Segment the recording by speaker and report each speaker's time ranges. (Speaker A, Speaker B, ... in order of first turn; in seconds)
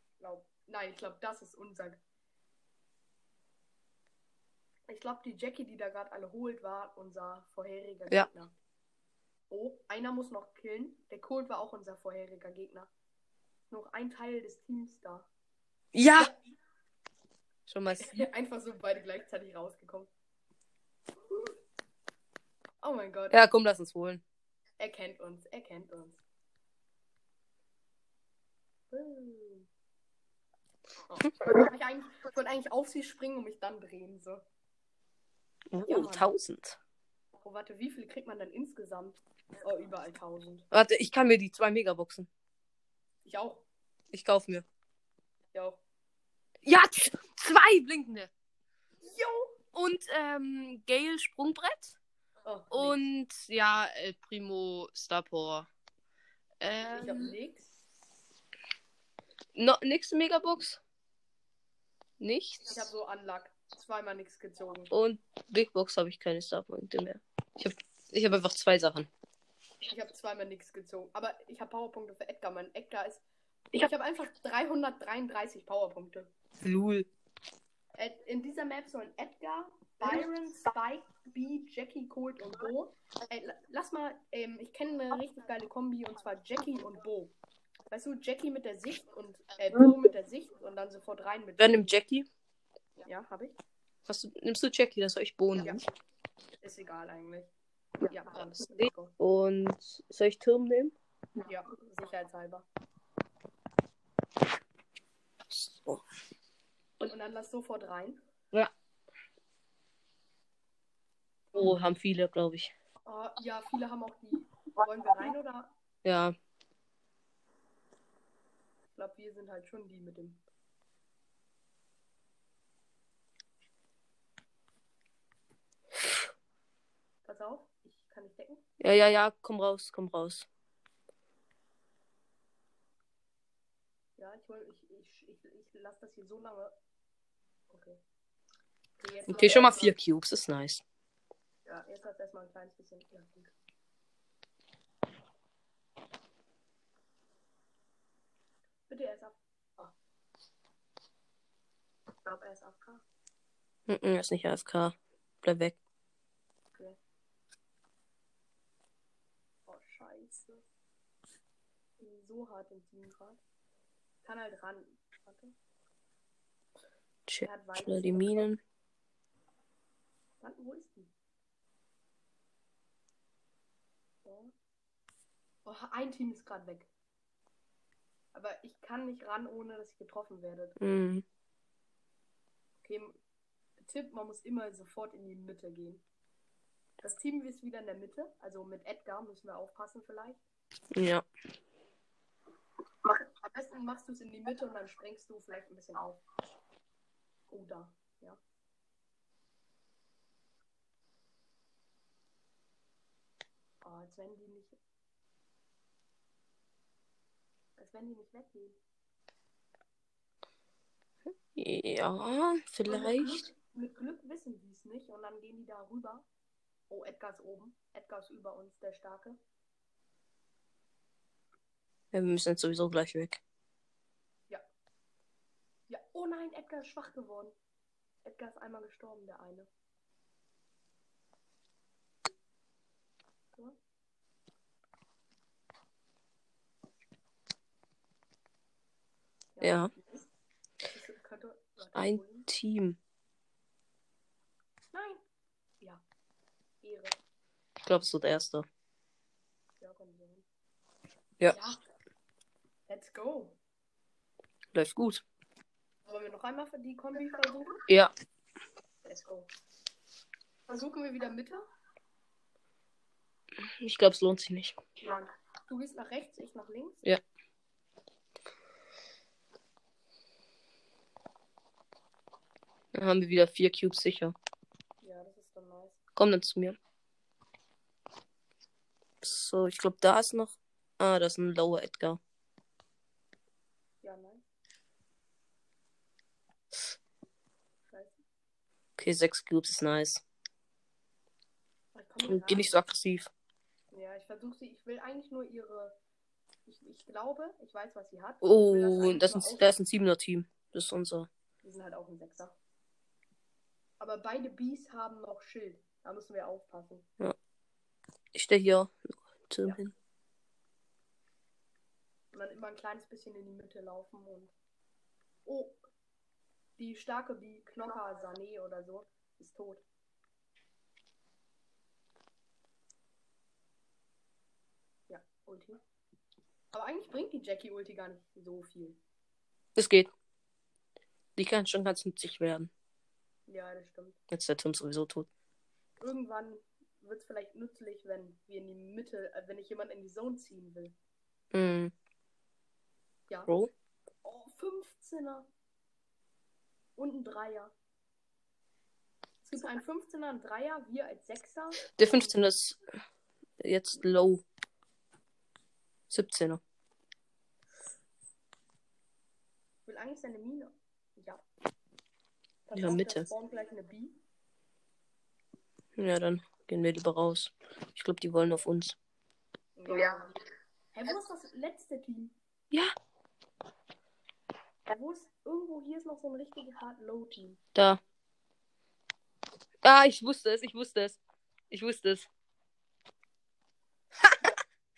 Speaker A: 0.2-2.0, 4.9-8.5, 9.5-12.9, 13.7-15.3, 18.0-20.1, 22.8-23.4, 24.8-26.2, 28.9-29.7, 31.1-34.4, 35.8-36.3, 37.4-40.6, 43.2-43.6, 45.5-45.8, 49.0-49.6, 52.4-53.0, 56.9-57.7, 62.7-64.9, 69.8-76.3, 78.0-87.3, 87.9-91.9, 93.0-93.6, 95.6-95.8, 96.6-97.5, 98.0-99.1, 101.4-102.7, 107.0-108.2, 113.0-115.7, 118.9-120.4, 127.2-128.6, 134.2-136.7, 137.7-138.0, 139.0-139.9, 141.7-143.5, 148.9-149.9, 152.2-153.0, 159.7-160.6, 162.0-163.4, 164.2-165.5, 167.4-168.5, 170.4-171.1, 174.2-174.5, 175.6-176.9, 178.3-180.8, 182.8-183.2, 183.8-186.0, 187.0-190.4, 193.0-196.2, 197.5-198.4, 203.8-204.8, 207.8-208.8, 212.8-216.2, 216.9-219.4, 225.9-227.5, 228.2-229.7, 239.5-240.2, 240.9-242.5, 244.9-245.2, 246.8-247.2, 249.8-250.4, 251.5-251.8, 252.9-253.6, 256.1-257.8, 259.0-259.5, 260.7-261.6, 265.0-267.0, 275.0-276.0, 284.0-284.4, 287.9-288.2, 291.9-292.7, 293.9-295.9, 296.6-299.7, 301.6-302.6, 304.0-307.1, 312.3-314.5, 315.4-315.8, 316.8-319.8, 325.1-325.8, 326.7-329.0, 333.5-334.2, 336.0-340.9, 344.2-345.5, 346.9-347.7, 349.4-352.3, 359.9-361.4, 362.7-364.2, 369.8-370.4, 370.9-372.3, 374.9-377.6
Speaker B: 15.9-16.3, 17.7-18.2, 23.3-24.2, 35.7-36.8, 40.7-42.3, 44.1-44.6, 46.6-48.3, 49.7-52.0, 52.7-55.7, 56.6-57.4, 59.5-60.8, 62.2-62.8, 64.9-69.1, 76.6-77.1, 91.6-92.3, 94.0-95.8, 98.6-100.9, 105.5-106.0, 111.5-112.7, 116.0-116.3, 128.8-130.5, 139.3-140.8, 153.9-155.8, 167.3-168.6, 180.8-181.2, 190.9-191.2, 211.5-213.5, 222.1-223.4, 239.6-239.9, 241.9-243.0, 247.8-248.7, 254.7-255.2, 263.8-264.8, 272.9-274.3, 276.1-276.8, 279.2-282.2, 289.0-290.2, 292.2-293.3, 298.4-301.3, 308.3-309.9, 329.8-330.1, 331.4-332.7, 334.3-335.3, 341.5-341.9, 352.0-352.8, 353.6-354.4, 356.1-356.6, 362.7-363.3, 365.9-368.9, 377.7-378.0, 379.8-381.2, 381.7-382.3